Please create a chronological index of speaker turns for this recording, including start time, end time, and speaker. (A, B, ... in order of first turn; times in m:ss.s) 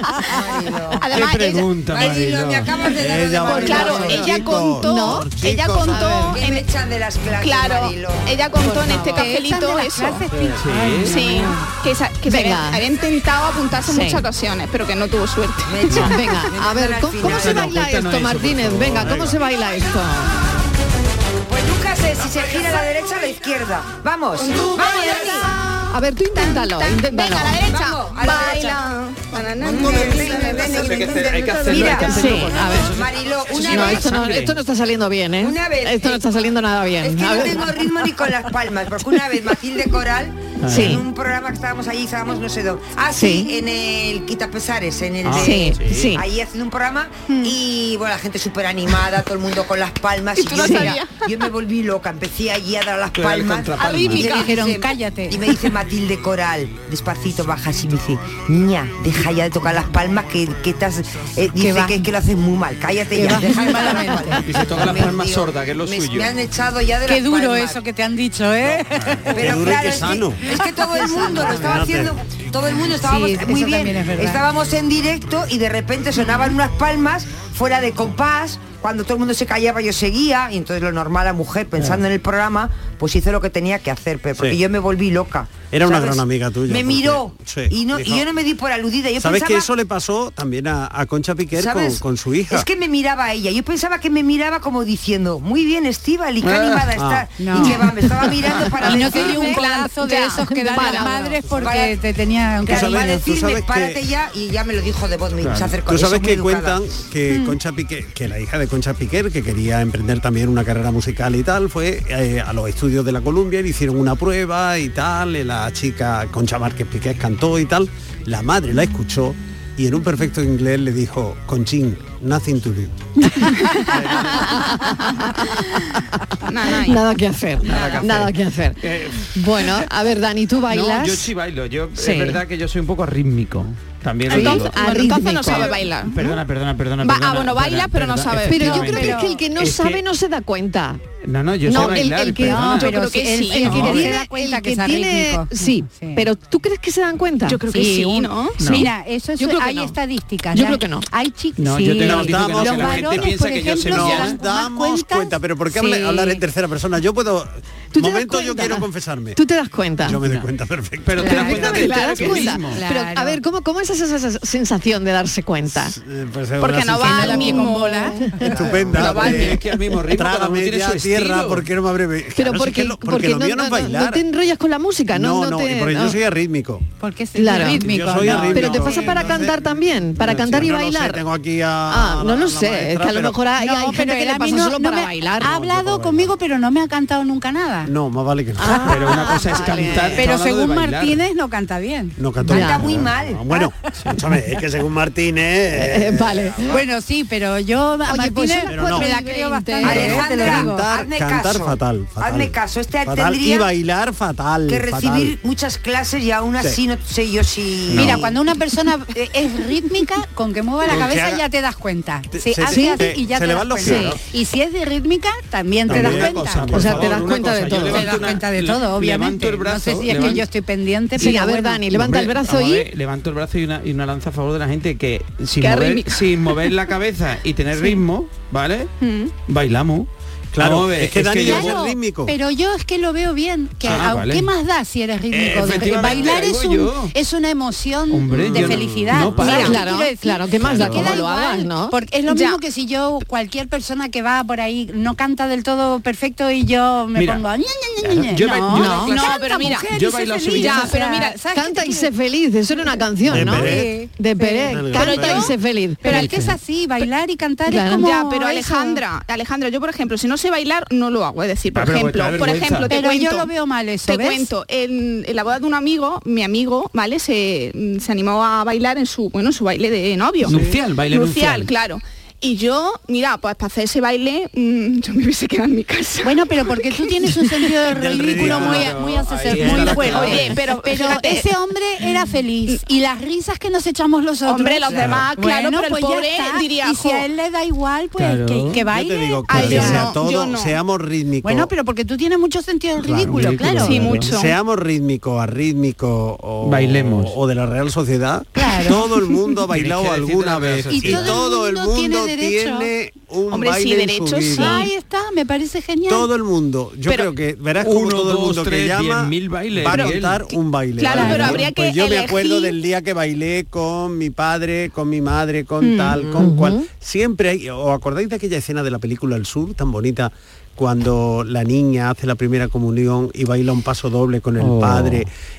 0:00.2-0:01.1 A
0:01.0-0:01.6 B
0:01.1-0:02.7 C
0:01.9-0:04.4 A
0:03.0-0:06.0 D
0:03.4-0:06.7 B
0:04.7-0:05.3 E
0:05.9-0:06.3 F
0:06.2-0:08.4 A
0:07.4-0:10.2 B
0:08.6-0:09.3 E
0:09.0-0:11.7 F
0:10.5-0:11.2 C
0:11.1-0:15.8 B
0:12.3-0:12.8 E
0:13.8-0:14.2 E
0:15.6-0:17.7 A
0:15.9-0:20.3 E
0:17.2-0:19.2 C
0:18.9-0:19.3 D
0:21.5-0:25.5 A
0:24.4-0:25.5 B
0:25.9-0:27.6 E
0:26.3-0:31.3 B
0:27.6-0:28.8 A
0:29.6-0:34.2 A
0:29.8-0:34.5 C
0:32.0-0:33.0 E
0:33.5-0:37.8 E
0:35.4-0:36.2 A
0:37.0-1:07.8 A
0:40.6-0:41.0 C
0:40.7-0:41.0 E
0:43.1-0:43.5 E
0:45.2-0:46.2 C
0:45.3-0:46.2 E
0:47.3-0:47.5 B
0:50.4-0:51.2 B
0:50.5-0:51.0 E
0:53.1-0:54.3 C
0:53.8-0:54.6 B
0:54.1-0:55.4 F
1:01.6-1:02.0 F
1:03.1-1:04.4 F
1:04.4-1:06.4 C
1:07.1-1:09.4 F
1:08.9-1:09.2 C
1:09.3-1:29.7 A
1:09.3-1:10.4 D
1:10.5-1:11.8 F
1:11.2-1:12.1 D
1:13.0-1:14.4 F
1:24.3-1:24.6 D
1:25.7-1:28.3 D
1:29.2-1:32.7 D
1:31.5-1:39.6 A
1:36.4-1:36.9 C
1:36.9-1:37.3 D
1:37.4-1:37.8 F
1:38.3-1:38.6 C
1:38.8-1:43.3 F
1:39.3-1:41.0 B
1:40.0-1:41.4 E
1:41.5-1:42.0 A
1:42.6-1:46.8 A
1:42.7-1:44.0 D
1:45.4-1:45.8 C
1:45.8-2:03.0 D
2:03.2-2:06.0 E
2:06.5-2:07.0 B
2:06.6-2:11.3 E
2:07.6-2:09.8 C
2:07.8-2:08.1 D
2:10.7-2:20.0 C
2:11.9-2:12.4 E
2:14.3-2:15.8 E
2:14.3-2:16.2 B
2:17.0-2:19.0 B
2:18.4-2:21.0 E
2:18.5-2:19.4 F
2:21.2-2:22.9 C
2:21.6-2:22.8 E
2:22.1-2:26.2 F
2:22.8-2:24.1 B
2:23.5-2:27.6 E
2:27.5-2:28.8 B
2:27.7-2:36.4 F
2:28.6-2:28.9 C
2:29.4-2:29.9 E
2:30.5-2:31.1 E
2:31.6-2:34.4 C
2:32.0-2:39.4 D
2:37.9-2:40.2 E
2:40.0-2:42.0 D
2:40.2-2:40.5 C
2:41.0-2:42.8 C
2:41.2-2:43.4 F
2:41.2-2:46.0 E
2:45.7-2:47.6 D
2:46.6-2:49.6 B
2:47.0-2:48.6 F
2:47.6-2:48.5 E
2:48.4-2:54.2 D
2:48.8-2:51.7 C
2:52.3-2:56.2 E
2:55.1-2:56.8 D
2:57.0-2:59.5 F
2:57.3-3:01.2 E
2:57.8-3:03.4 D
3:01.9-3:05.6 E
3:03.6-3:07.9 F
3:05.4-3:06.3 D
3:07.8-3:09.0 D
3:08.6-3:10.3 E
3:08.6-3:09.0 F
3:08.9-3:11.2 C
3:10.2-3:12.2 F
3:12.2-3:16.6 D
3:12.4-3:13.4 A
3:12.5-3:12.9 E
3:13.9-3:14.2 C
3:15.7-3:16.8 E
3:16.7-3:20.7 F
3:18.1-3:20.7 E
3:18.7-3:19.1 D
3:19.8-3:23.7 A
3:19.9-3:25.4 D
3:24.7-3:28.3 A
3:27.9-3:28.2 C
3:27.9-3:36.8 F
3:30.8-3:31.4 D
3:32.3-3:34.2 D
3:32.7-3:33.1 E
3:33.8-3:34.2 E
3:35.8-3:37.3 D
3:35.9-3:40.5 C
3:36.7-3:38.3 E
3:37.9-3:41.8 F
3:41.2-3:42.9 E
3:41.9-3:48.9 C
3:45.6-3:46.7 B
3:49.0-3:49.3 B
3:49.5-3:51.8 C
3:50.5-3:52.3 D
3:51.4-4:12.1 F
3:53.8-3:54.1 D
3:53.8-3:54.5 C
3:55.3-3:56.4 D
3:55.4-3:57.1 C
3:58.1-3:59.8 C
3:58.3-3:59.6 D
3:59.4-4:02.0 E
3:59.5-3:59.8 B
4:00.6-4:01.1 C
4:02.3-4:02.6 B
4:07.1-4:07.4 C
4:08.0-4:09.3 C
4:08.7-4:09.2 E
4:09.0-4:09.9 B
4:09.9-4:10.9 C
4:10.5-4:11.4 B
4:11.5-4:16.3 E
4:12.8-4:19.0 F
4:13.3-4:13.9 D
4:14.7-4:15.4 D
4:14.9-4:15.5 B
4:16.2-4:16.6 C
4:17.7-4:18.1 E
4:17.9-4:23.5 B
4:21.7-4:22.9 C
4:22.9-4:24.5 F
4:24.0-4:37.7 B
4:30.4-4:31.7 C
4:30.5-4:30.8 D
4:36.2-4:50.1 F
4:37.9-4:40.4 D
4:38.3-4:40.5 C
4:40.1-4:41.5 B
4:44.4-4:47.2 B
4:44.9-4:45.2 D
4:48.2-4:48.8 C
4:48.9-4:51.7 D
4:49.5-4:50.8 B
4:51.4-4:54.2 F
4:53.0-4:53.6 D
4:53.2-4:54.3 C
4:53.8-4:54.6 B
4:54.2-5:04.9 D
4:56.6-4:57.4 C
4:58.6-4:59.1 F
4:59.7-5:01.4 C
5:00.9-5:02.9 F
5:03.5-5:04.9 B
5:04.5-5:06.3 F
5:06.1-5:25.3 D
5:07.8-5:10.5 C
5:09.9-5:10.2 B
5:11.0-5:12.8 B
5:11.1-5:11.6 F
5:15.8-5:16.4 B
5:16.4-5:16.8 E
5:24.6-5:25.2 C